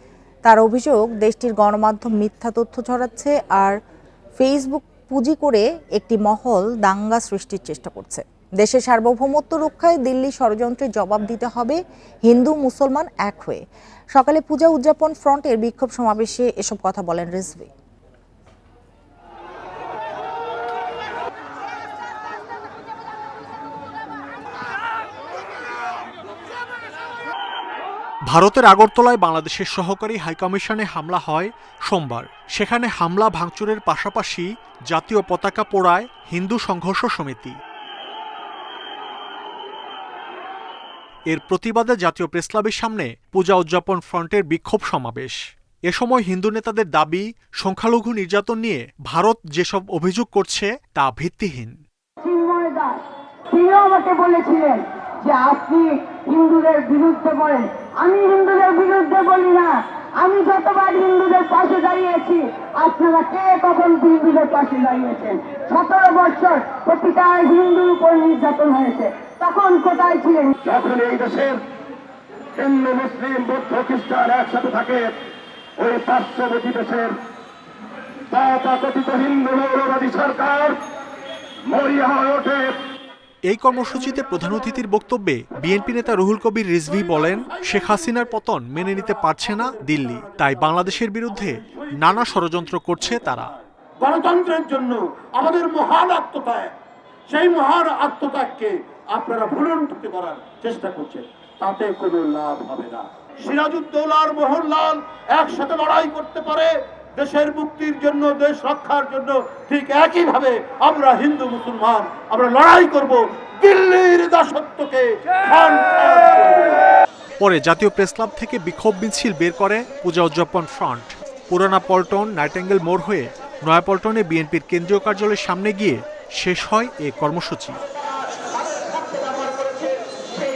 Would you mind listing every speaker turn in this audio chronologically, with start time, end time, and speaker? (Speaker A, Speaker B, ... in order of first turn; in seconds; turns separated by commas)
Speaker A: 0.4-3.8, Speaker A: 4.4-13.6, Speaker A: 14.1-17.7, Speaker B: 28.3-37.5, Speaker B: 41.3-45.4, Speaker B: 45.9-51.8, Speaker C: 52.2-70.5, Speaker D: 70.6-71.6, Speaker D: 72.5-75.2, Speaker D: 75.8-77.2, Speaker D: 78.3-80.8, Speaker D: 81.7-82.8, Speaker B: 83.5-93.5, Speaker E: 87.5-88.1, Speaker E: 89.3-90.8, Speaker E: 91.4-92.3, Speaker E: 94.0-96.7, Speaker E: 97.3-116.8, Speaker B: 117.4-127.8